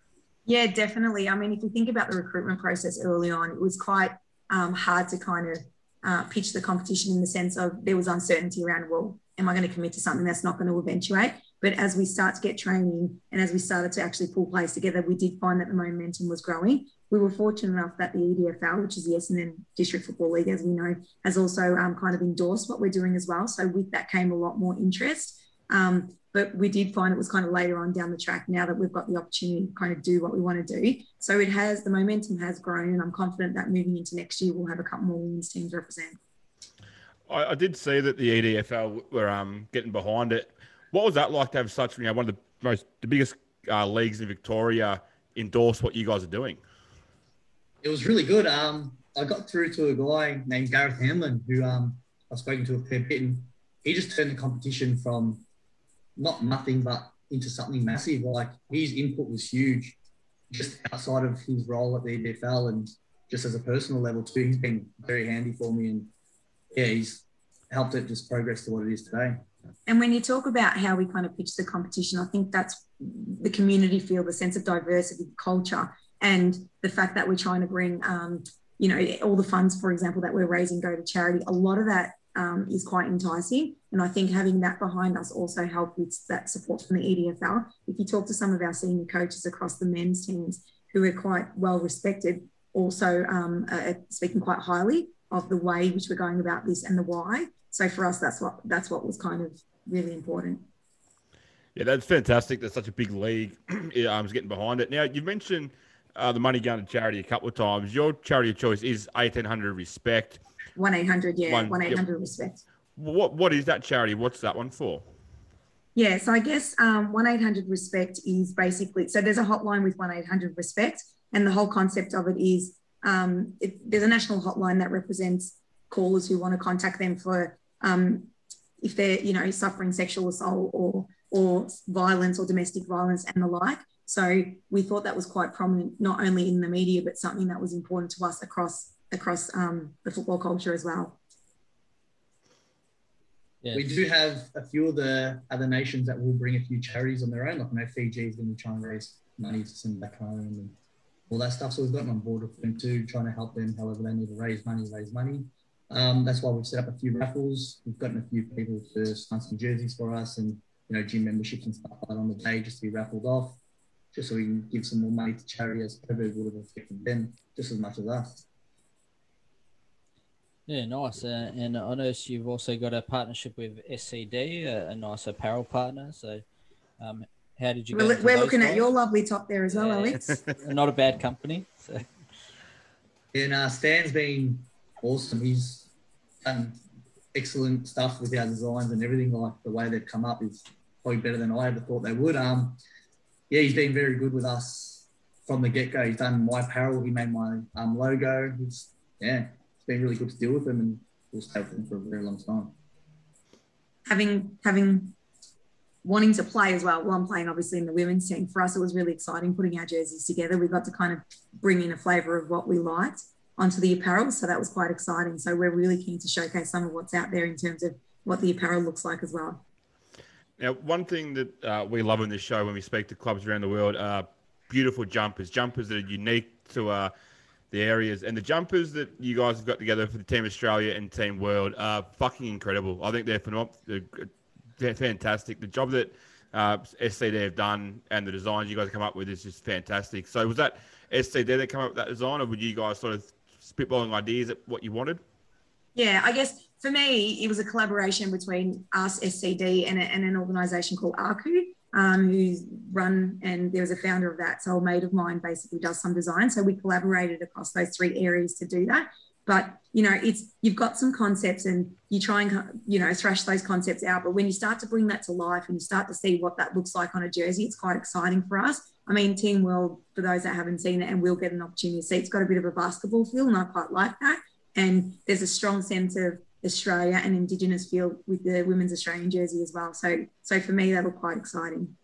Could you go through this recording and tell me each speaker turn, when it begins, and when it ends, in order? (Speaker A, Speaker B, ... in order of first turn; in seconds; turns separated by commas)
Speaker A: 0.5-36.2, Speaker B: 37.3-46.6, Speaker C: 47.8-55.5, Speaker C: 56.2-60.0, Speaker C: 60.5-66.1, Speaker C: 66.7-69.4, Speaker A: 69.9-100.7, Speaker B: 101.8-110.4, Speaker A: 110.8-112.6, Speaker B: 111.5-112.0, Speaker B: 113.0-115.1, Speaker A: 116.0-141.2, Speaker D: 143.6-144.0, Speaker C: 143.7-150.8, Speaker C: 151.3-163.6, Speaker C: 164.1-168.4, Speaker D: 170.7-176.4, Speaker D: 177.0-178.9, Speaker A: 177.9-180.4, Speaker D: 179.7-182.1, Speaker C: 183.3-185.9, Speaker C: 186.4-186.8, Speaker C: 187.3-192.8, Speaker C: 193.5-202.7, Speaker A: 204.1-205.2, Speaker A: 206.0-219.6, Speaker B: 220.6-227.1, Speaker B: 227.7-245.2, Speaker A: 245.9-281.9